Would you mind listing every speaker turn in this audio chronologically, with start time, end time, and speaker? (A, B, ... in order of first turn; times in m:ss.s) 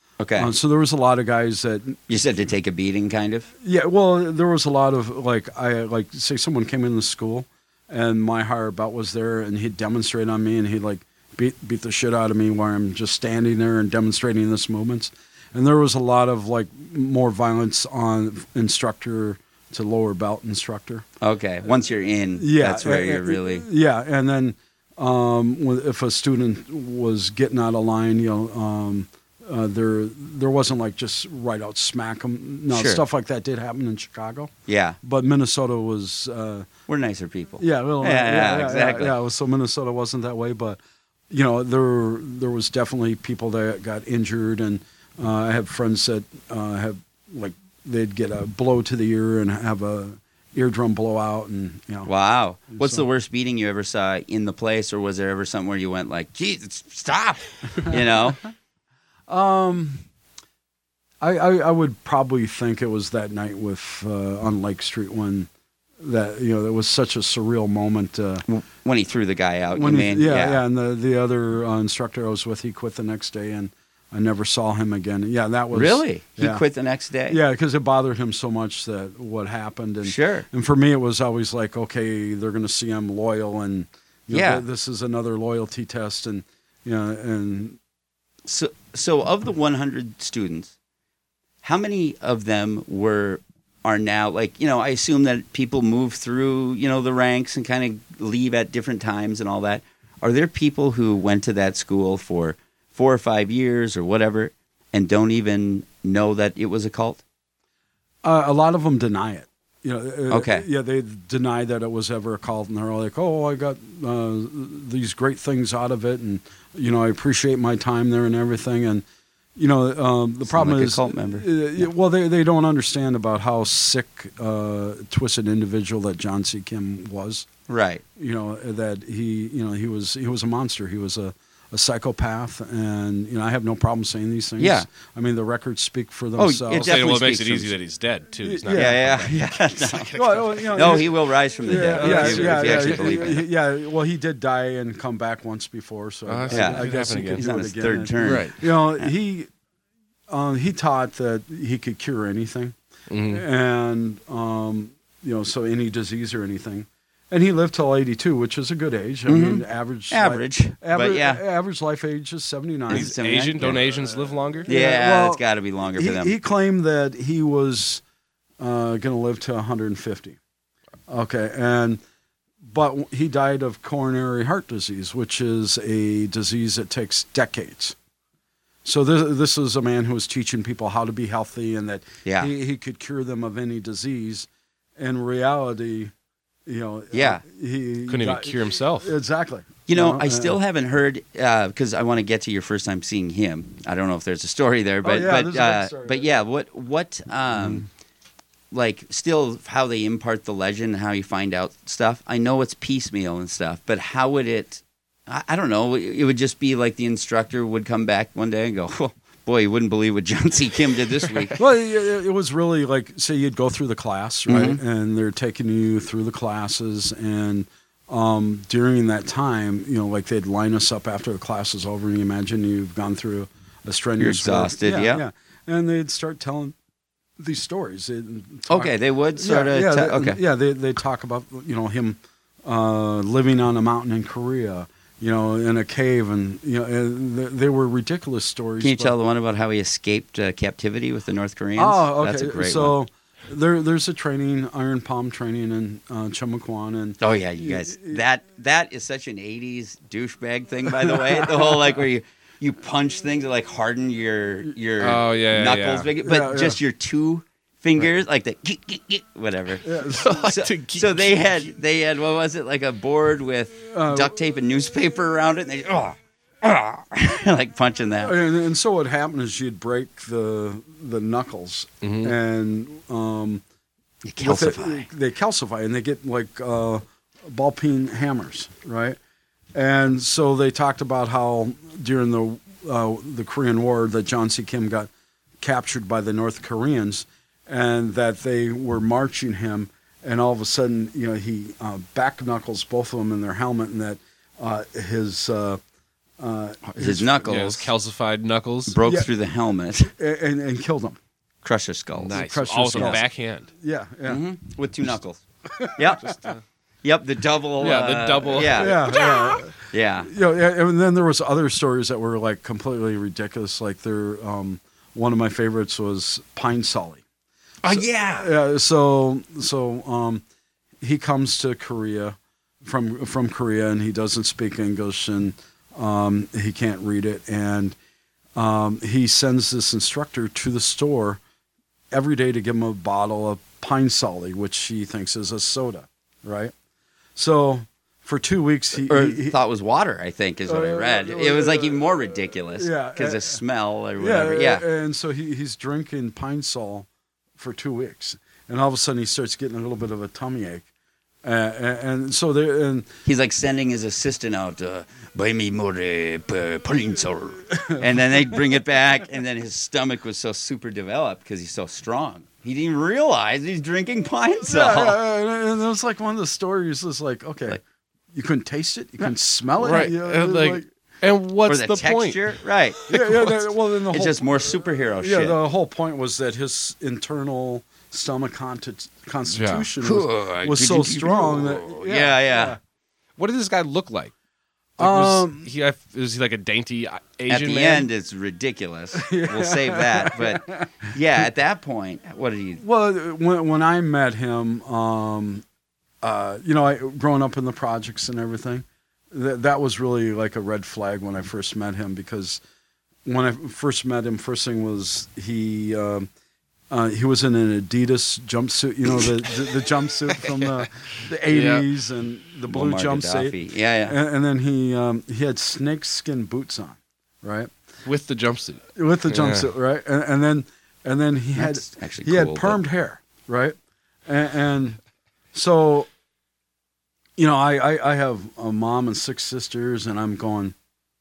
0:00.2-0:00.5 A
0:00.4-0:02.0 B
0:02.1-0:03.5 A
0:03.6-0:21.0 B
0:21.2-0:23.6 A
0:22.4-0:36.7 B
0:32.7-0:33.0 A
0:34.7-0:35.0 A
0:36.9-0:39.2 A
0:37.6-0:40.8 B
0:41.3-0:52.1 B
0:52.0-0:58.4 A
0:52.7-0:53.0 B
0:59.3-1:00.0 B
1:01.2-1:05.5 B
1:06.0-1:08.4 B
1:08.4-1:10.6 A
1:09.7-1:16.6 B
1:15.7-1:17.4 A
1:17.3-1:27.8 B
1:20.0-1:20.4 A
1:24.3-1:24.6 A
1:28.4-1:30.7 A
1:31.6-1:47.2 A
1:48.2-1:59.0 B
1:50.3-1:50.6 A
1:59.6-2:07.5 B
2:00.5-2:01.9 A
2:07.7-2:08.0 A
2:08.2-2:17.0 B
2:14.6-2:14.9 A
2:16.4-2:17.7 A
2:16.7-2:21.0 C
2:18.4-2:19.0 B
2:18.7-2:23.4 A
2:20.1-2:21.1 B
2:21.6-2:29.5 B
2:21.7-2:23.2 C
2:26.3-2:27.4 C
2:26.5-2:29.0 A
2:28.2-2:28.5 C
2:30.3-2:32.7 B
2:33.1-2:33.4 C
2:33.3-2:43.8 B
2:39.3-2:41.4 A
2:42.9-2:43.8 A
2:42.9-2:44.7 C
2:44.6-2:45.4 B
2:44.7-2:46.3 A
2:46.0-2:48.0 B
2:48.6-2:50.4 B
2:51.1-2:52.0 B
2:52.6-2:58.0 B
2:58.8-3:06.1 B
3:02.2-3:02.5 A
3:06.6-3:10.6 B
3:07.1-3:07.4 A
3:08.1-3:09.1 C
3:09.9-3:17.9 A
3:15.0-3:16.3 B
3:18.7-3:31.6 A
3:31.6-3:46.7 B
3:34.5-3:34.8 A
3:44.2-3:45.2 A
3:47.4-3:59.1 B
3:48.7-3:50.4 A
3:58.8-4:03.0 A
4:01.8-4:08.2 B
4:07.2-4:28.4 A
4:11.0-4:11.8 B
4:15.0-4:16.1 C
4:16.2-4:16.8 B
4:19.8-4:20.4 B
4:20.1-4:21.4 C
4:23.9-4:24.3 B
4:28.2-4:33.6 B
4:32.0-4:32.3 C
4:34.2-4:35.0 A
4:34.4-4:39.2 B
4:39.7-4:55.8 B
4:56.4-4:57.4 B
4:56.9-4:57.9 A
4:57.4-4:59.0 C
4:58.9-5:00.1 A
5:00.1-5:01.2 B
5:01.6-5:03.2 A
5:02.1-5:03.7 C
5:02.3-5:04.4 B
5:04.2-5:05.4 A
5:05.7-5:06.3 B
5:05.9-5:06.3 A
5:06.2-5:06.6 C
5:07.0-5:10.3 A
5:07.8-5:09.2 C
5:08.7-5:17.2 B
5:17.8-5:18.5 A
5:17.9-5:20.4 B
5:21.0-5:28.0 B
5:28.6-5:31.4 B
5:32.1-5:36.7 B
5:37.4-5:39.6 B
5:39.0-5:44.8 A
5:40.6-5:42.1 B
5:42.8-5:43.6 B
5:44.2-5:50.8 B
5:51.4-5:53.1 B
5:53.2-6:05.2 A
5:57.7-5:58.1 B
6:04.6-6:07.8 B
6:08.3-6:10.9 B
6:09.8-6:12.5 C
6:11.6-6:13.1 A
6:13.1-6:13.6 C
6:13.1-6:22.8 B
6:14.1-6:15.6 A
6:19.5-6:19.9 C
6:20.0-6:22.8 A
6:23.4-6:24.3 C
6:25.0-6:28.1 C
6:25.0-6:25.7 B
6:27.5-6:32.8 A
6:29.1-6:30.9 B
6:32.8-6:35.6 B
6:36.2-6:42.6 B
6:43.2-6:46.3 B
6:46.9-6:57.7 B
6:51.5-6:51.9 C
6:52.7-6:54.2 A
6:58.0-6:59.7 C
6:59.0-7:03.8 B
7:01.5-7:02.8 A
7:04.3-7:05.0 B
7:05.5-7:06.1 B
7:07.4-7:10.7 B